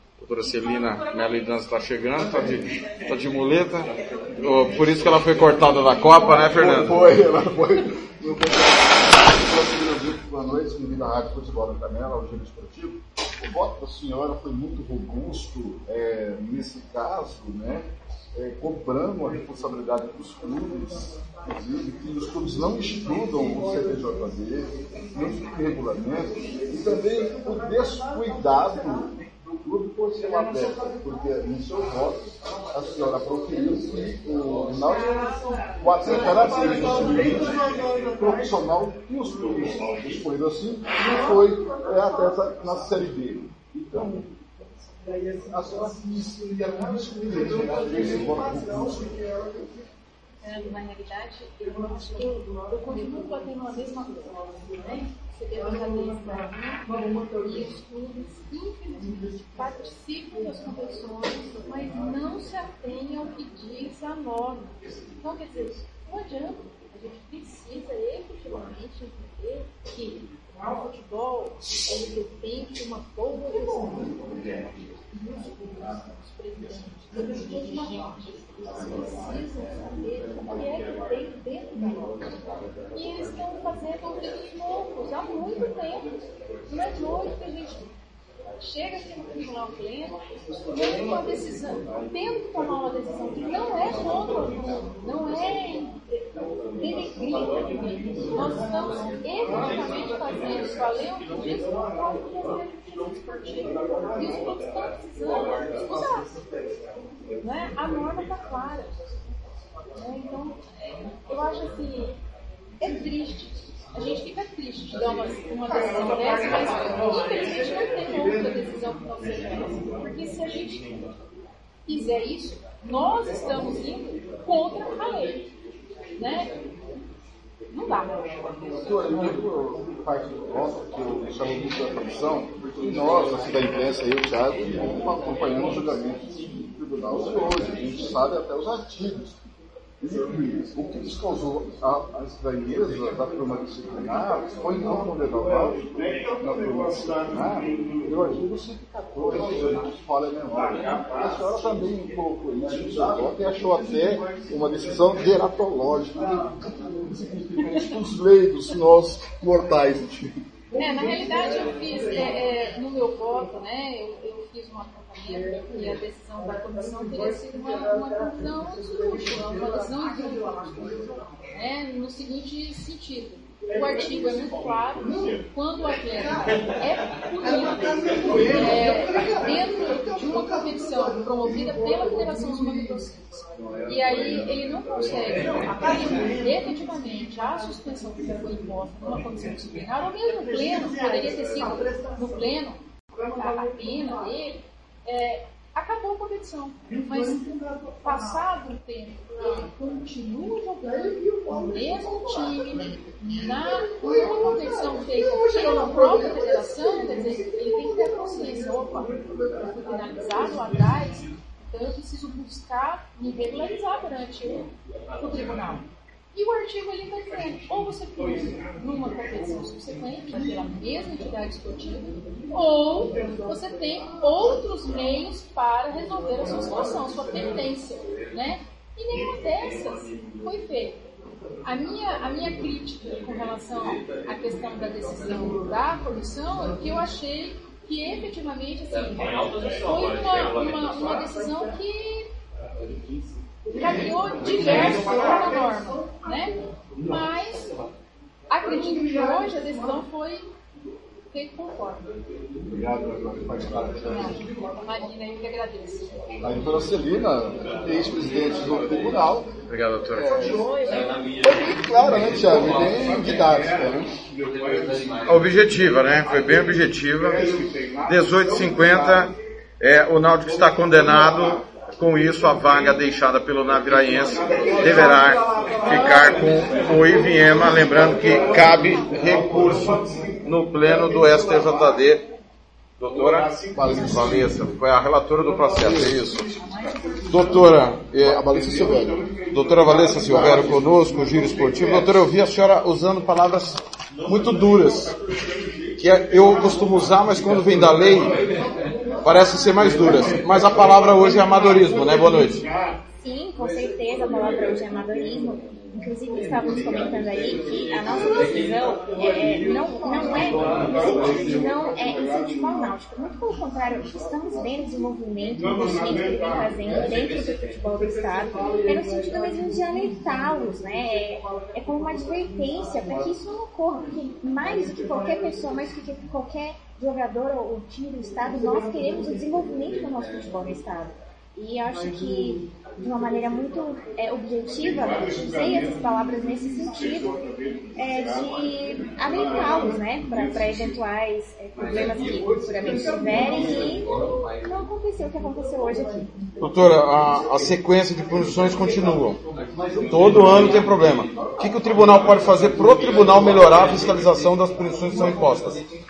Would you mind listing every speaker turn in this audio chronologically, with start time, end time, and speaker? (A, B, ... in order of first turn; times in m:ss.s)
0:00.2-0:07.1 A
0:06.5-0:35.1 B
0:35.8-0:44.6 B
0:45.5-0:49.2 B
0:50.4-1:22.2 C
1:22.9-1:26.1 C
1:26.7-1:27.9 C
1:28.6-1:30.2 C
1:30.7-1:36.0 C
1:36.8-1:46.3 C
1:47.4-1:49.1 C
1:49.9-1:52.2 C
1:52.8-2:01.0 C
2:01.9-2:05.4 C
2:06.2-2:06.5 C
2:07.7-2:08.2 C
2:08.8-2:19.4 B
2:20.0-2:25.8 B
2:26.4-2:40.4 B
2:40.7-3:12.8 C
3:13.4-3:17.4 C
3:18.0-3:34.7 C
3:35.2-3:51.0 C
3:51.6-4:02.3 C
4:03.8-4:07.7 C
4:08.5-4:10.5 C
4:11.3-4:12.1 C
4:12.6-4:14.4 B
4:14.1-4:16.1 C
4:16.4-4:19.5 B
4:19.7-4:20.5 A
4:20.1-4:20.7 B
4:21.4-4:24.2 B
4:25.3-4:27.5 A
4:28.0-4:42.3 A
4:43.0-4:46.4 A
4:43.7-4:44.4 B
4:47.3-4:48.4 A
4:48.2-4:49.2 B
4:49.5-4:55.2 A
4:56.0-4:58.4 A
4:59.2-5:02.7 A
5:03.2-5:37.3 D
5:38.0-5:44.1 D
5:44.7-5:46.3 D
5:46.6-5:49.4 A
5:50.1-5:55.8 A